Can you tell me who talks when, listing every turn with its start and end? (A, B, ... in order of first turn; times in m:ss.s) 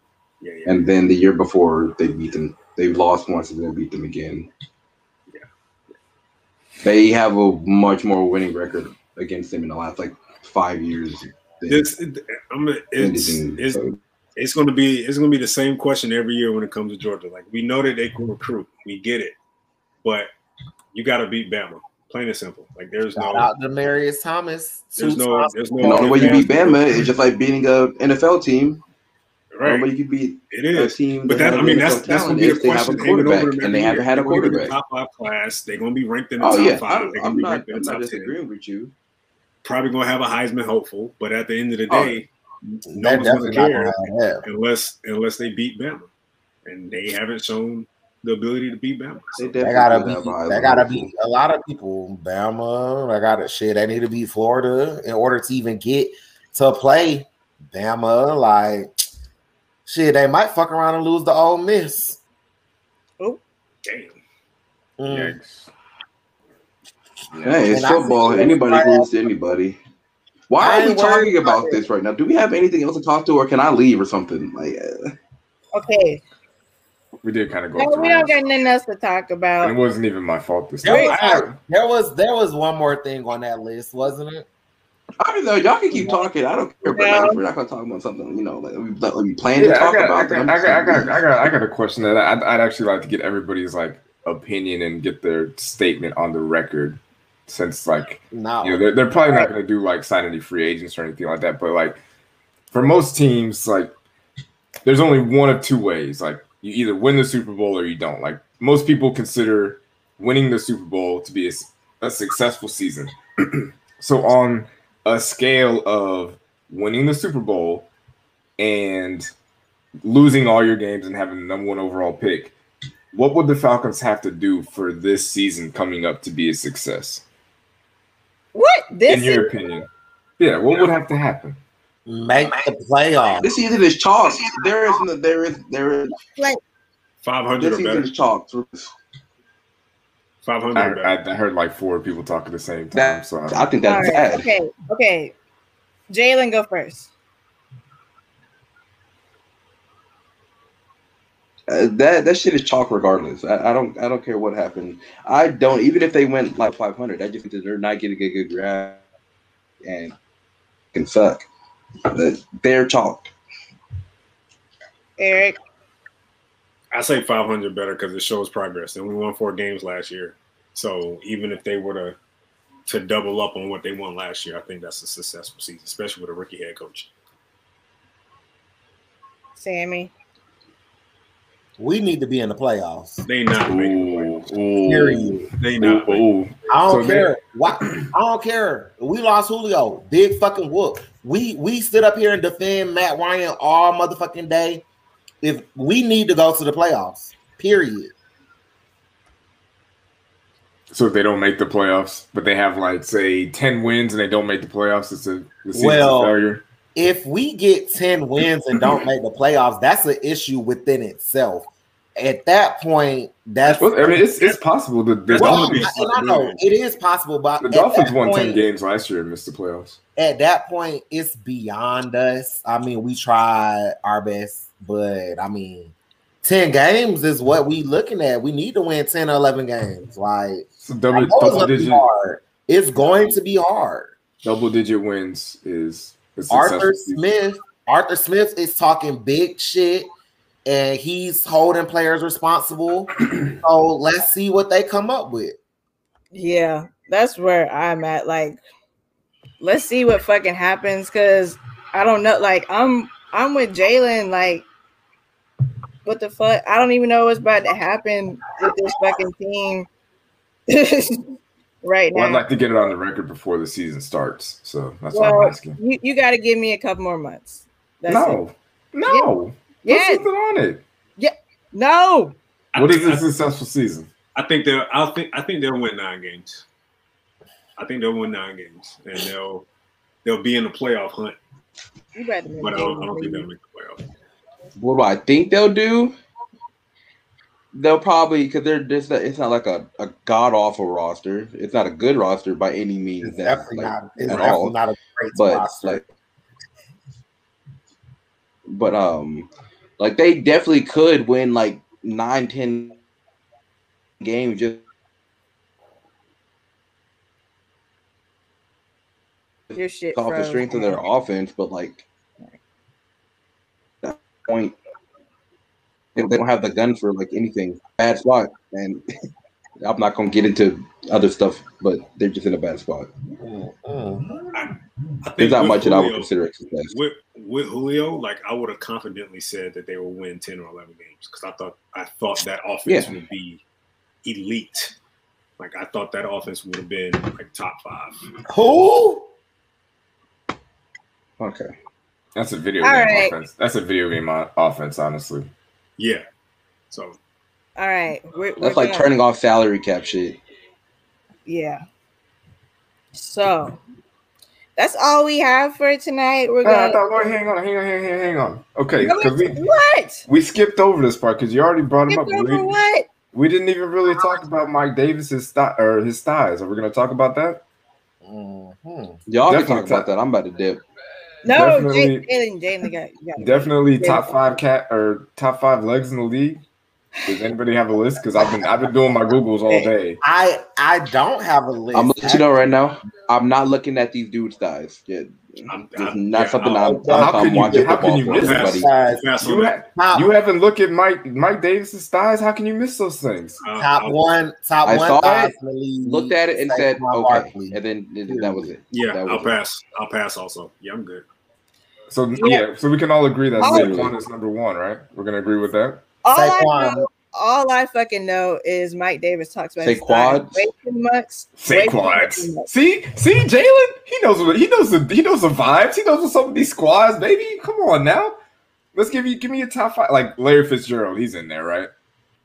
0:00.4-0:00.8 A
0:00.7-0:04.5 B
0:06.8-0:11.9 B
0:11.7-0:13.8 A
0:13.0-0:14.0 B
0:14.4-0:19.4 A
0:20.9-0:23.5 A
0:23.2-0:26.6 C
0:25.0-0:27.1 A
0:25.8-0:28.8 B
0:29.6-0:29.9 A
0:29.6-0:34.8 B
0:30.5-0:38.4 A
0:36.4-0:38.9 B
0:39.6-0:46.1 A
0:41.9-0:42.2 B
0:42.9-0:44.4 C
0:46.7-0:49.5 A
0:49.4-0:51.1 B
0:49.6-0:58.9 C
0:59.9-1:02.2 C
1:03.8-1:04.2 A
1:05.0-1:05.4 C
1:05.1-1:05.7 D
1:07.3-1:07.8 D
1:07.4-1:09.8 B
1:07.7-1:09.2 C
1:10.5-1:15.1 B
1:10.6-1:11.8 C
1:15.7-1:16.2 E
1:17.2-1:18.4 D
1:17.8-1:19.8 E
1:19.6-1:21.6 D
1:20.8-1:24.5 C
1:20.8-1:21.2 E
1:25.2-1:31.2 B
1:26.8-1:27.4 E
1:29.6-1:42.0 D
1:38.3-1:38.9 C
1:42.7-1:43.9 D
1:44.8-1:57.9 D
1:58.6-1:59.3 D
2:00.0-2:02.6 D
2:03.1-2:07.2 D
2:08.5-2:09.5 E
2:09.1-2:09.9 D
2:10.4-2:11.6 D
2:12.1-2:13.5 C
2:13.4-2:16.2 B
2:17.2-2:18.1 A
2:17.6-2:18.9 B
2:20.4-2:21.1 A
2:20.8-2:23.7 D
2:22.9-2:24.5 B
2:23.8-2:25.3 E
2:26.1-2:27.1 E
2:31.7-2:39.0 B
2:39.8-2:40.2 B
2:40.9-2:41.5 B
2:42.1-2:43.3 B
2:45.2-2:45.6 E
2:46.9-2:52.2 A
2:52.9-2:57.1 A
2:59.6-3:00.1 E
3:01.8-3:03.3 C
3:03.3-3:04.3 A
3:03.6-3:08.1 D
3:04.8-3:05.5 C
3:05.6-3:06.3 A
3:06.7-3:14.8 C
3:15.4-3:18.1 C
3:20.9-3:26.6 D
3:25.7-3:26.3 C
3:27.0-3:34.2 C
3:33.8-3:35.9 D
3:35.3-3:36.6 A
3:35.4-3:38.6 C
3:37.6-3:40.0 D
3:40.2-3:54.1 C
3:50.8-3:52.1 D
3:54.4-3:57.2 D
3:56.5-4:00.1 C
4:00.6-4:05.6 C
4:06.3-4:08.6 E
4:09.6-4:14.7 E
4:16.0-4:19.9 E
4:20.7-4:22.4 E
4:22.1-4:25.8 D
4:25.1-4:28.4 E
4:28.1-4:30.8 D
4:29.1-4:29.3 E
4:29.8-4:30.3 E
4:31.2-4:32.4 E
4:32.7-4:33.2 A
4:32.8-4:34.1 D
4:34.4-4:36.6 A
4:37.8-4:39.7 A
4:40.2-4:41.4 A
4:42.2-4:43.5 E
4:42.6-4:44.0 A
4:44.8-4:46.1 B
4:47.7-4:54.8 B
4:53.2-4:56.0 C
4:55.4-4:56.0 B
4:58.7-4:59.5 B
5:00.0-5:03.0 B
5:04.2-5:04.8 B
5:09.7-5:12.1 B
5:09.8-5:11.0 E
5:14.0-5:14.8 B
5:16.2-5:19.0 B
5:19.8-5:23.1 B
5:23.4-5:24.4 C
5:24.5-5:26.3 A
5:25.4-5:27.0 B
5:26.9-5:33.6 A
5:32.9-5:33.1 B
5:34.2-5:34.9 A
5:35.6-5:38.2 A
5:38.5-5:39.3 C
5:41.4-5:41.7 B
5:42.4-5:45.5 D
5:42.8-5:43.4 E
5:46.0-5:46.2 A
5:46.9-5:47.2 A
5:47.8-5:49.1 E
5:48.6-5:50.4 B
5:51.5-5:51.8 E
5:53.2-5:53.8 E
5:54.8-5:57.4 E
5:56.6-5:59.6 D
5:59.0-6:00.2 E
6:00.3-6:02.8 D
6:02.1-6:03.1 E
6:03.3-6:07.6 D
6:08.2-6:09.2 C
6:09.3-6:10.8 B
6:09.4-6:10.1 D
6:11.4-6:14.3 E
6:11.5-6:12.3 D
6:13.4-6:16.6 D
6:17.2-6:20.2 D
6:20.2-6:22.8 C
6:21.9-6:28.9 B
6:25.7-6:27.0 A
6:26.7-6:29.3 C
6:27.1-6:28.7 D
6:28.4-6:29.8 A
6:29.4-6:33.6 D
6:29.9-6:30.3 C
6:33.6-6:34.2 A
6:33.8-6:38.8 C
6:34.8-6:35.5 B
6:36.0-6:39.6 B
6:38.9-6:41.2 A
6:42.1-6:46.0 D
6:42.4-6:42.6 E
6:43.6-6:44.0 E
6:43.6-6:44.2 B
6:46.2-6:52.7 E
6:46.3-6:47.1 C
6:49.8-6:50.7 B
6:51.6-6:58.4 D
6:59.0-7:01.9 D